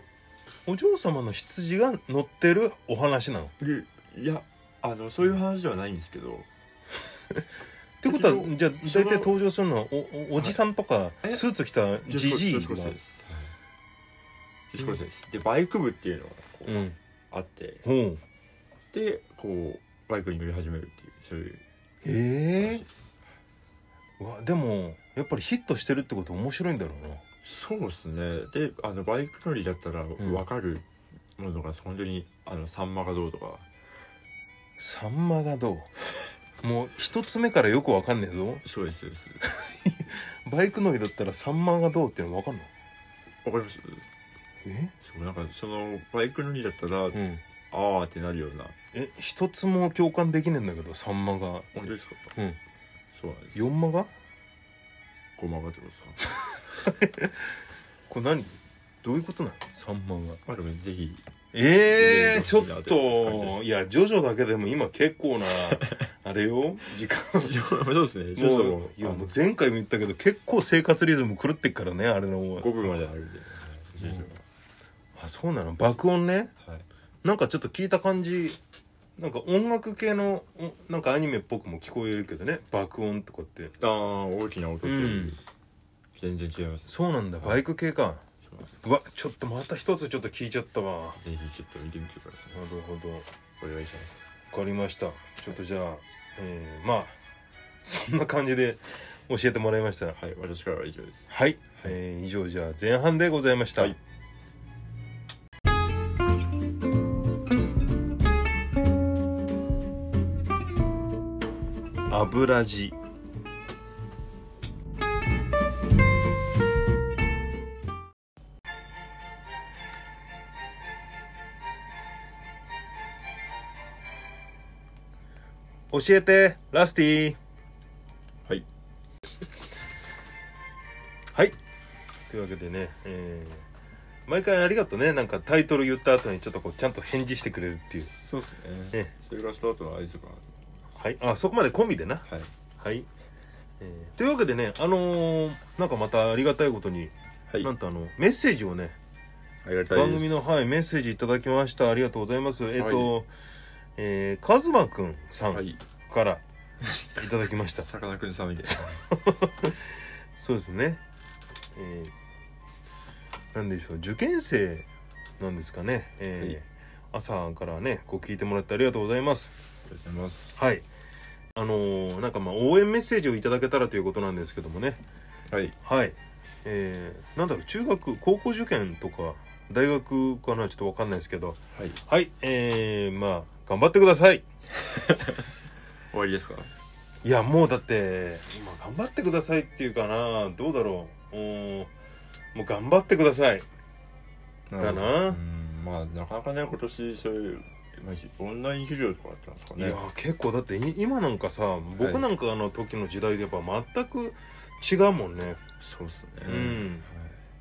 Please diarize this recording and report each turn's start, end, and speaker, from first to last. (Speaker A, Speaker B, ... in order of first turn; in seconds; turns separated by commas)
Speaker A: 0.7-3.5, Speaker B: 3.6-6.5, Speaker A: 8.0-13.0, Speaker B: 8.1-9.4, Speaker B: 12.1-13.5, Speaker B: 14.7-17.9, Speaker A: 16.7-17.0, Speaker A: 17.8-18.2, Speaker B: 18.9-21.6, Speaker A: 22.0-22.8, Speaker B: 22.6-23.1, Speaker A: 24.2-27.2, Speaker B: 27.4-33.7, Speaker A: 34.8-35.9, Speaker A: 36.6-38.6, Speaker B: 38.6-39.5, Speaker A: 39.4-42.7, Speaker B: 43.4-44.1, Speaker A: 44.6-44.9, Speaker B: 45.0-48.8, Speaker A: 47.1-47.4, Speaker A: 48.9-51.8, Speaker B: 51.7-52.3, Speaker B: 53.1-53.6, Speaker A: 53.5-54.1, Speaker B: 55.4-56.3, Speaker A: 56.9-57.5, Speaker A: 58.1-60.4, Speaker B: 60.5-61.2, Speaker A: 61.5-67.5, Speaker B: 61.9-63.6, Speaker B: 65.6-66.1, Speaker B: 67.4-69.3, Speaker A: 68.4-73.0, Speaker B: 72.6-74.4, Speaker A: 74.0-74.3, Speaker A: 75.2-76.5, Speaker A: 77.2-78.6, Speaker A: 79.2-83.7, Speaker B: 83.8-85.4, Speaker A: 84.8-85.4, Speaker B: 86.2-87.6, Speaker A: 86.9-88.2, Speaker B: 88.5-88.8, Speaker A: 88.8-91.2, Speaker B: 91.2-92.6, Speaker A: 92.5-93.3, Speaker B: 93.6-94.2, Speaker A: 94.5-97.2, Speaker A: 97.8-100.2, Speaker B: 100.2-102.0, Speaker A: 101.3-104.0, Speaker A: 112.1-113.0, Speaker A: 125.9-127.4, Speaker A: 132.3-133.7, Speaker A: 134.3-138.1, Speaker B: 138.2-140.7, Speaker A: 140.9-142.3, Speaker A: 142.8-143.1, Speaker A: 143.8-149.0, Speaker B: 149.6-150.3, Speaker A: 149.9-153.3, Speaker B: 152.8-153.1, Speaker A: 154.0-156.4, Speaker B: 155.5-155.8, Speaker B: 156.8-157.3, Speaker A: 157.2-157.9, Speaker B: 157.8-159.1, Speaker A: 159.1-159.8, Speaker A: 160.4-161.0, Speaker A: 161.8-162.1, Speaker A: 163.5-164.9, Speaker A: 165.4-169.5, Speaker B: 169.9-170.6, Speaker A: 170.6-170.9, Speaker A: 171.5-175.0, Speaker B: 175.5-175.8, Speaker A: 175.8-184.4, Speaker B: 184.7-185.6, Speaker B: 186.1-186.7, Speaker A: 187.2-191.9, Speaker A: 192.5-193.7, Speaker B: 194.7-200.0, Speaker A: 194.8-195.4, Speaker A: 199.8-205.6, Speaker B: 202.0-202.3, Speaker B: 205.8-207.4, Speaker A: 206.4-207.1